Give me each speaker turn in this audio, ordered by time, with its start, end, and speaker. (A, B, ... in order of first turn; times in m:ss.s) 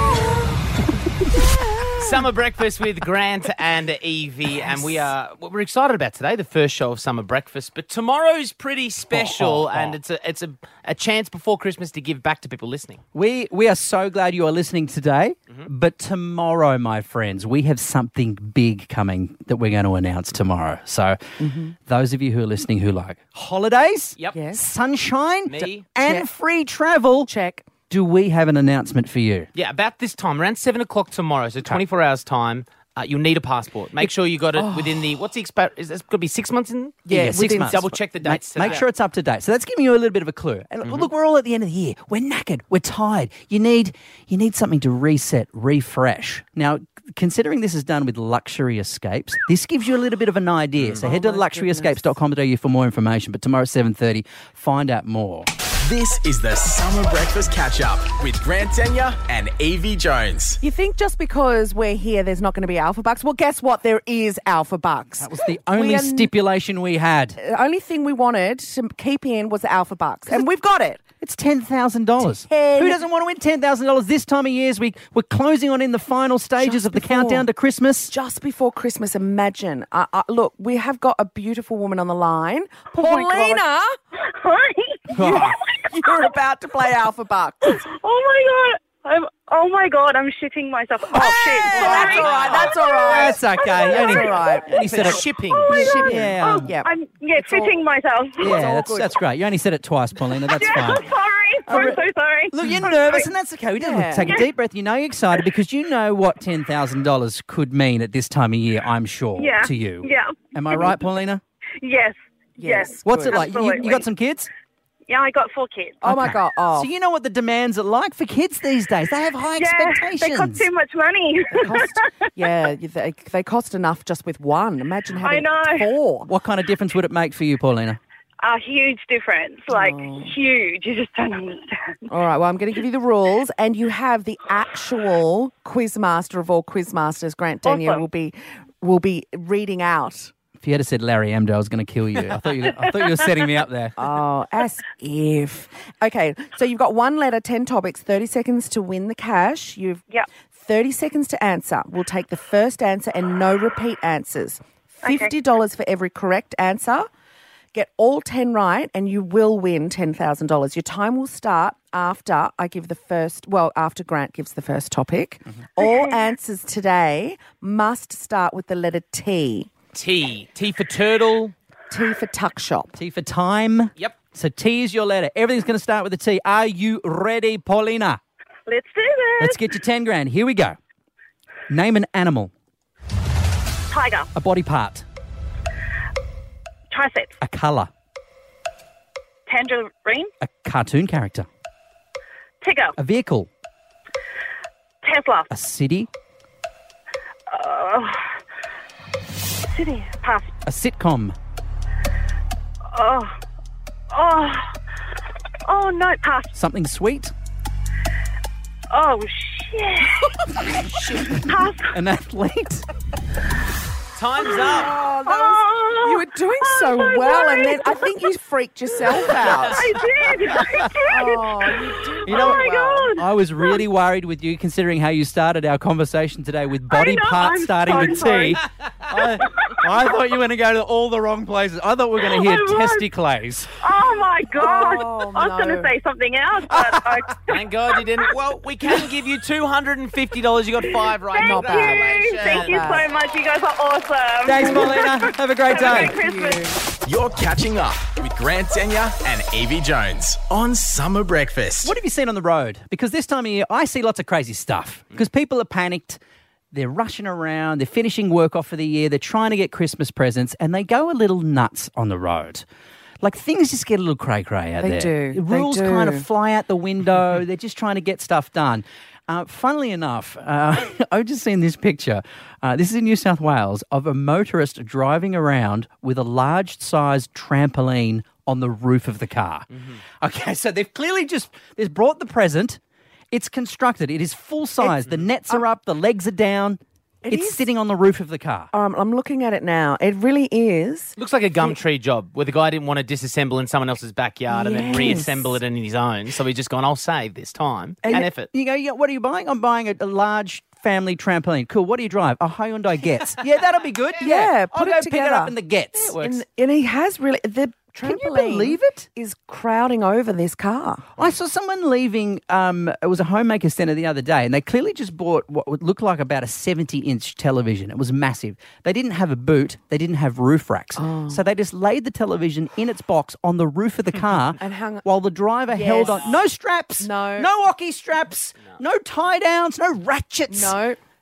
0:01.9-0:13.0 A
0:09.1-0:10.0 B
0:13.1-0:21.2 B
0:21.4-0:21.7 C
0:21.8-0:27.3 B
0:24.3-0:24.6 C
0:25.5-0:25.8 A
0:26.0-0:26.3 C
0:27.3-0:27.7 C
0:27.9-0:29.5 B
0:29.5-0:38.8 A
0:34.6-0:35.0 C
0:37.1-0:38.0 C
0:37.1-0:55.5 B
0:50.8-0:51.0 A
0:51.0-0:52.2 C
0:55.8-1:00.6 D
1:00.6-1:06.3 C
1:05.2-1:07.4 B
1:07.4-1:11.0 C
1:11.2-1:18.1 B
1:12.2-1:13.0 C
1:16.6-1:17.5 C
1:18.1-1:23.9 C
1:23.0-1:23.6 E
1:24.2-1:26.3 E
1:25.1-1:25.6 B
1:25.1-1:27.8 C
1:27.8-1:34.6 E
1:31.1-1:34.9 C
1:31.8-1:32.7 A
1:33.0-1:36.7 B
1:34.7-1:35.9 A
1:35.5-1:38.6 E
1:35.7-1:37.8 C
1:38.4-1:41.1 B
1:38.4-1:39.1 C
1:40.4-1:43.3 E
1:41.7-1:51.4 B
1:43.8-1:44.4 C
1:49.4-1:50.8 E
1:51.8-1:54.0 E
1:52.6-1:53.4 C
1:53.0-1:54.5 B
1:55.1-1:56.0 E
1:56.0-1:56.9 C
1:56.0-2:00.7 B
1:59.5-2:02.1 E
2:01.5-2:06.3 C
2:05.2-2:05.9 E
2:06.3-2:08.0 B
2:08.4-2:11.9 E
2:09.7-2:10.3 C
2:12.1-2:20.3 C
2:17.6-2:18.0 E
2:20.6-2:23.9 B
2:24.0-2:37.1 C
2:35.0-2:35.3 E
2:37.7-2:49.7 C
2:45.8-2:46.2 E
2:49.9-2:51.5 A
2:51.9-2:53.0 C
2:53.0-2:58.2 B
2:58.7-2:59.6 E
2:59.4-3:00.8 B
3:01.7-3:02.5 B
3:03.9-3:04.3 E
3:04.3-3:05.0 B
3:06.9-3:07.3 E
3:07.4-3:07.9 B
3:09.5-3:10.3 E
3:10.4-3:11.5 B
3:12.6-3:12.9 E
3:13.0-3:13.5 B
3:15.0-3:15.5 E
3:15.5-3:16.1 B
3:17.5-3:18.2 E
3:19.7-3:20.5 E
3:20.6-3:21.4 B
3:22.9-3:23.3 E
3:24.1-3:24.7 E
3:25.6-3:26.5 E
3:26.5-3:27.3 B
3:28.9-3:30.3 E
3:30.6-3:32.8 B
3:31.4-3:31.9 E
3:34.1-3:34.9 A
3:34.4-3:38.1 E
3:34.6-3:39.8 C
3:39.3-3:43.8 E
3:40.6-3:40.8 B
3:41.1-3:43.1 C
3:42.2-3:53.7 B
3:46.9-3:48.6 E
3:49.4-3:49.9 E
3:52.2-3:53.1 E
3:53.8-3:58.0 E
3:54.6-3:55.9 C
3:56.7-3:57.3 B
3:57.5-4:03.0 A
4:00.9-4:06.8 E
4:01.4-4:03.1 C
4:04.4-4:06.2 B
4:05.7-4:06.8 C
4:07.0-4:11.9 D
4:11.8-4:16.2 B
4:16.7-4:22.6 B
4:23.2-4:39.7 B
4:24.8-4:26.2 C
4:40.2-4:42.8 B
4:43.3-4:48.7 B
4:47.2-4:47.7 C
4:48.7-4:51.7 C
4:51.2-4:58.5 A
4:54.5-4:55.6 C
4:58.1-5:06.2 B
5:04.2-5:11.1 C
5:06.1-5:06.4 A
5:08.0-5:09.1 B
5:11.2-5:30.8 B
5:21.0-5:21.4 C
5:24.6-5:25.0 C
5:25.7-5:26.2 C
5:27.0-5:27.5 C
5:30.5-5:31.0 C